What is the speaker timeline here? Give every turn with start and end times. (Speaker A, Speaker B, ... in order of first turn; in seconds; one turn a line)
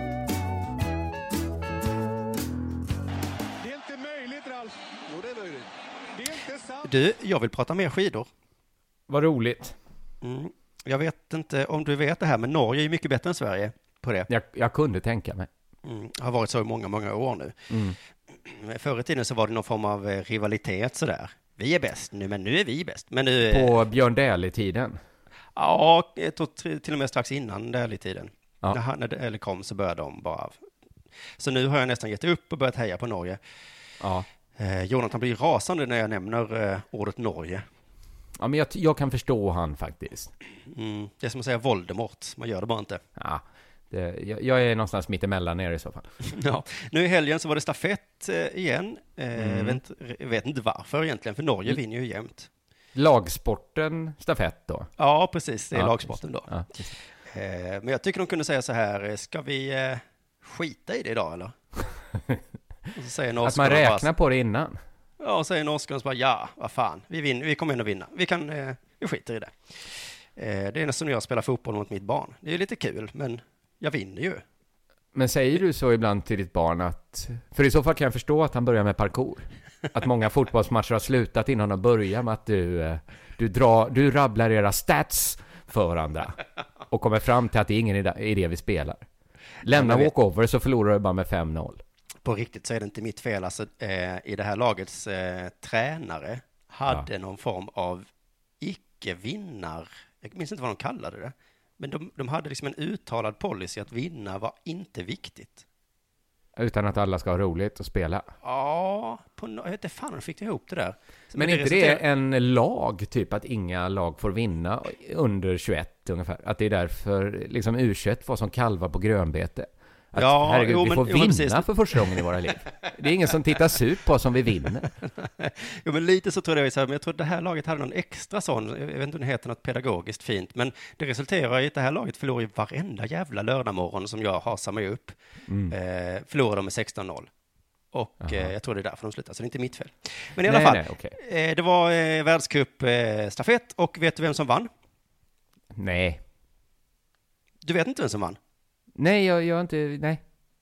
Speaker A: 3.6-6.9
Speaker B: 6.8-8.3
Speaker C: 9.1-9.8
Speaker B: 10.2-14.3
Speaker C: 14.3-15.5
Speaker B: 15.8-17.6
Speaker C: 17.7-17.9
Speaker B: 18.3-23.8
Speaker C: 23.5-25.0
Speaker B: 25.6-30.6
Speaker B: 31.4-33.4
Speaker C: 34.0-34.3
Speaker B: 34.6-37.6
Speaker C: 38.4-40.3
Speaker B: 40.7-43.0
Speaker C: 43.1-46.1
Speaker B: 46.3-52.5
Speaker C: 49.3-49.8
Speaker C: 52.9-54.9
Speaker B: 55.0-56.6
Speaker C: 55.7-56.9
Speaker B: 57.2-61.5
Speaker B: 62.9-64.1
Speaker C: 63.4-64.8
Speaker B: 65.2-74.4
Speaker C: 75.1-86.4
Speaker C: 86.9-89.0
Speaker C: 89.6-91.8
Speaker B: 89.7-90.1
Speaker B: 92.2-98.1
Speaker B: 98.6-105.6
Speaker C: 106.5-108.3
Speaker B: 108.4-112.0
Speaker C: 111.3-124.9
Speaker B: 120.2-122.2
Speaker B: 125.2-135.2
Speaker C: 135.5-135.7
Speaker B: 135.7-137.3
Speaker B: 137.9-144.7
Speaker C: 138.2-138.5
Speaker C: 140.4-141.2
Speaker C: 145.7-146.2
Speaker B: 147.6-148.4
Speaker C: 148.9-150.2